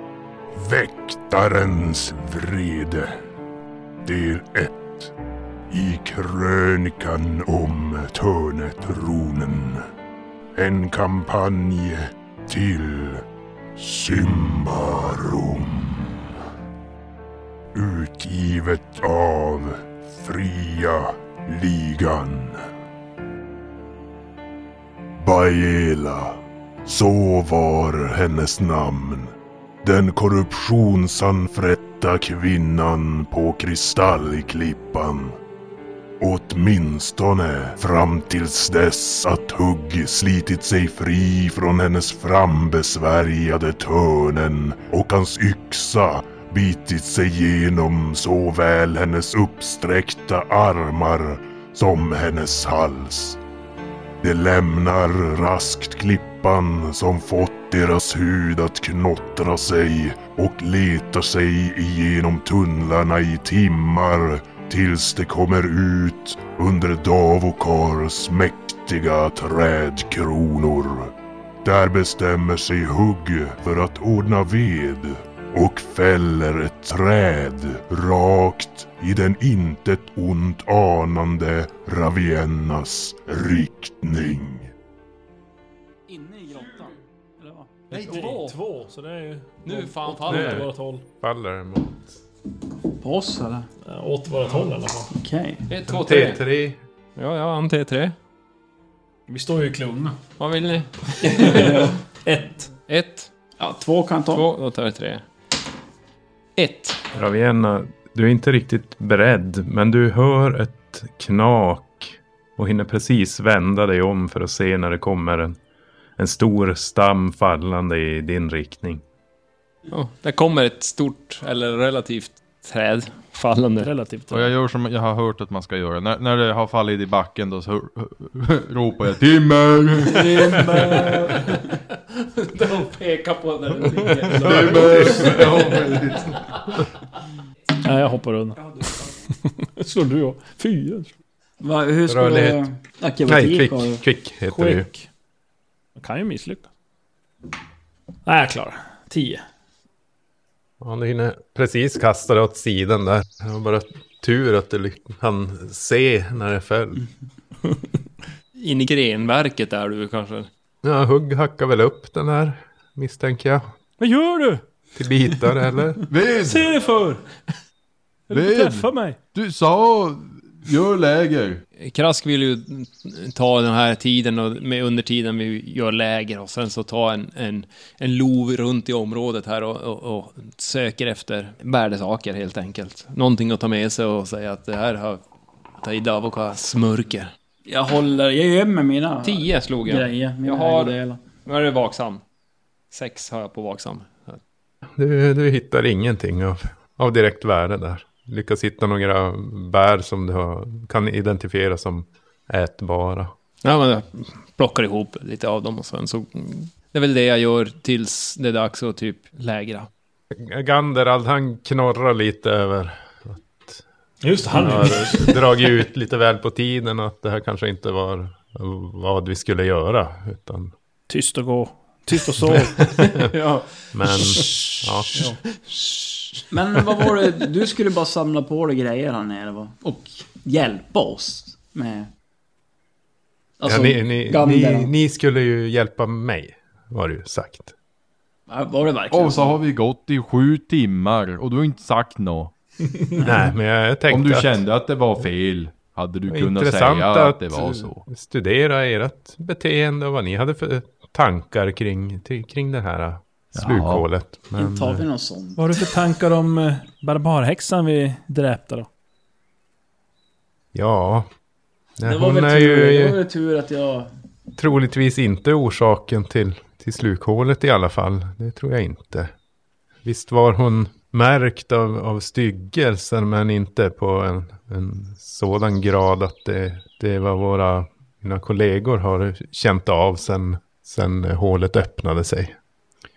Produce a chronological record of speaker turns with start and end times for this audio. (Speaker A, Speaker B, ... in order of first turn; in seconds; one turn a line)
Speaker A: 0.5-3.1
Speaker A: 4.0-5.1
Speaker A: 5.7-9.8
Speaker A: 10.6-13.2
Speaker A: 13.8-16.3
Speaker A: 17.7-22.6
Speaker A: 25.2-29.3
Speaker A: 29.8-35.4
Speaker A: 36.2-53.4
Speaker A: 54.2-84.7
Speaker B: 86.1-87.7
Speaker C: 87.9-91.0
Speaker D: 87.9-88.5
Speaker D: 89.6-90.7
Speaker E: 90.3-90.7
Speaker E: 91.2-92.2
Speaker B: 93.0-93.7
Speaker C: 93.8-95.1
Speaker B: 95.1-95.6
Speaker D: 95.7-96.4
Speaker E: 95.9-96.8
Speaker D: 97.2-98.1
Speaker C: 99.3-100.2
Speaker D: 100.4-101.7
Speaker C: 101.2-102.7
Speaker B: 101.4-102.0
Speaker D: 102.9-103.3
Speaker B: 103.6-104.4
Speaker D: 104.3-105.2
Speaker D: 106.6-107.1
Speaker E: 107.1-115.6
Speaker E: 116.2-119.0
Speaker D: 119.9-123.9
Speaker C: 123.8-124.5
Speaker F: 124.3-131.3
Speaker D: 130.2-136.4
Speaker C: 130.5-131.3
Speaker E: 134.3-135.5
Speaker F: 134.3-136.4
Speaker C: 137.8-138.6
Speaker C: 139.5-141.1
Speaker B: 141.6-144.0
Speaker E: 142.1-142.6
Speaker E: 143.2-144.9
Speaker C: 144.5-145.1
Speaker C: 146.0-146.7
Speaker C: 148.2-149.4
Speaker E: 150.8-157.0
Speaker D: 158.6-160.5
Speaker E: 160.8-163.7
Speaker C: 164.0-164.6
Speaker E: 164.9-166.0
Speaker F: 166.1-166.7
Speaker C: 166.4-167.2
Speaker C: 168.3-169.2
Speaker F: 168.3-171.6
Speaker D: 171.8-185.2
Speaker D: 185.8-187.3
Speaker B: 187.7-191.2
Speaker D: 189.2-192.2
Speaker D: 192.9-194.4
Speaker E: 195.0-203.3
Speaker D: 203.6-209.9
Speaker E: 210.3-213.8
Speaker C: 214.2-215.4
Speaker E: 214.5-220.7
Speaker C: 221.1-222.8
Speaker E: 222.8-223.3
Speaker D: 223.0-226.4
Speaker E: 223.9-225.2
Speaker C: 225.1-225.4
Speaker B: 226.5-232.1
Speaker D: 227.0-227.3
Speaker B: 233.6-234.9
Speaker E: 233.6-237.7
Speaker B: 238.5-239.6
Speaker F: 239.1-242.5
Speaker E: 243.2-244.6
Speaker F: 244.1-248.0
Speaker E: 246.3-255.0
Speaker F: 253.5-254.0
Speaker B: 254.6-255.6
Speaker C: 255.6-258.9
Speaker E: 260.7-261.3
Speaker E: 262.0-263.2
Speaker B: 262.0-264.1
Speaker E: 264.6-269.3
Speaker E: 270.0-282.6